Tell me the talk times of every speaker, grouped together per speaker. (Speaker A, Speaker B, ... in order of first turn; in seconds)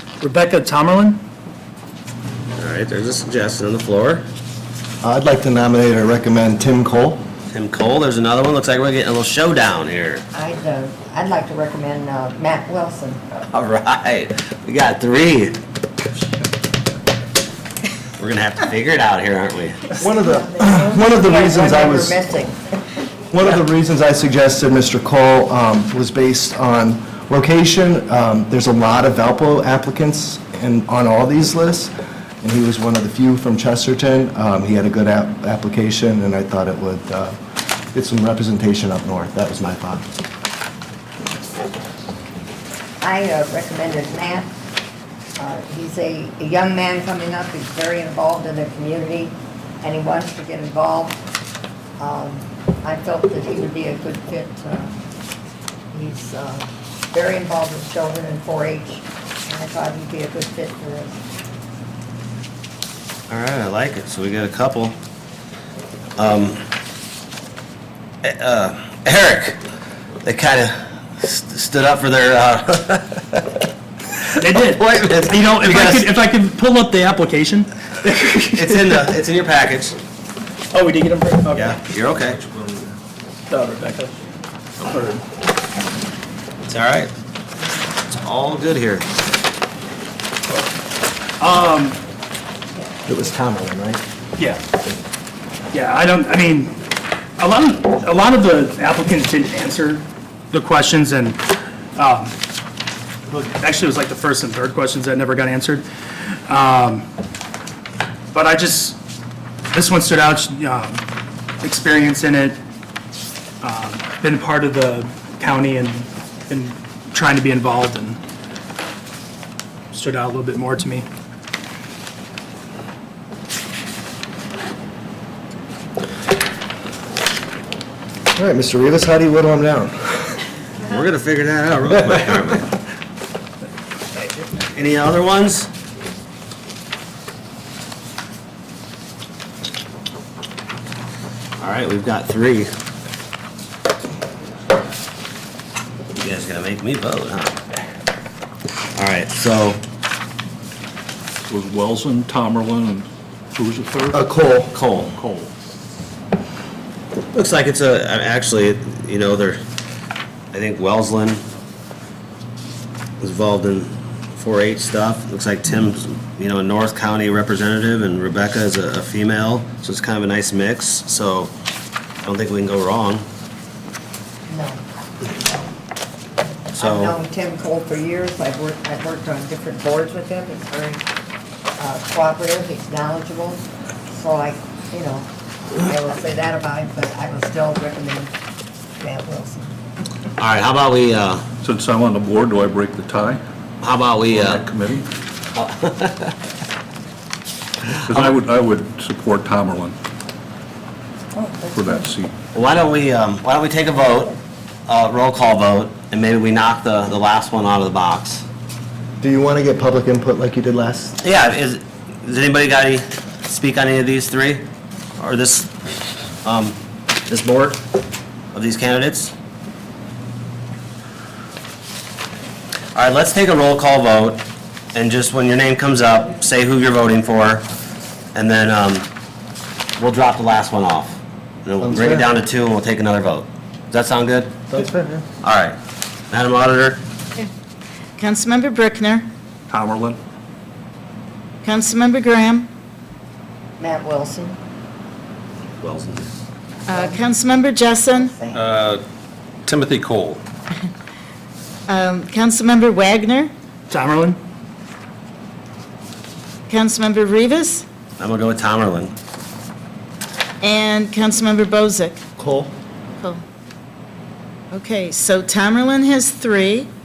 Speaker A: 0.2-1.2, 74.4-79.0, 80.7-81.8, 83.5-84.1, 84.8-85.2, 91.4-92.0, 95.7-96.8, 97.4-102.3, 103.3-105.9, 106.5-107.1, 108.3-109.0, 109.7-111.0, 111.6-112.6, 113.6-118.2, 119.9-121.1, 253.9-254.4
Speaker B: 2.6-4.3, 7.5-10.2, 13.5-15.6, 18.2-20.0, 63.3-65.0, 66.2-66.6, 68.2-69.6, 70.2-73.5, 74.8-76.0, 78.5-80.0, 81.6-82.4, 86.7-87.1, 88.1-89.1, 130.8-132.7, 134.7-135.7, 141.6-142.7, 146.2-147.6, 149.0-149.8, 154.7-155.1, 157.3-159.6, 160.5-161.4, 163.2-171.5, 172.2-173.2, 176.8-177.2, 190.4-191.4, 193.8-194.7, 195.5-196.3, 198.0-198.3, 202.5-208.4, 211.2-214.7, 215.2-215.7, 216.4-216.8, 217.3-217.8, 218.5-219.3, 222.9-227.7, 228.3-229.1, 230.0-234.6, 235.4-235.8, 236.3-237.0, 245.8-246.2, 249.8-250.4, 258.2-259.1
Speaker C: 5.0-7.2, 20.0-22.2, 23.3-37.4, 37.9-40.1, 93.1-94.0, 128.4-130.2, 154.1-154.7, 209.2-211.2, 231.8-232.3, 234.7-235.3, 262.4-262.7
Speaker D: 10.3-13.2, 20.0-22.6, 43.0-44.5, 45.4-51.2, 52.0-54.9, 55.9-61.2, 174.5-174.8, 175.3-175.7, 176.5-181.0, 181.8-188.3, 189.0-189.7, 243.8-244.6, 246.9-247.3, 248.1-248.8
Speaker E: 151.5-154.2, 155.2-155.5, 191.6-193.4, 194.3-195.1, 198.1-199.9, 201.6-202.3, 239.7-240.2
Speaker F: 238.2-239.3, 241.6-242.7, 246.9-248.3, 251.9-253.5, 256.7-257.9, 260.6-262.2, 264.7-266.9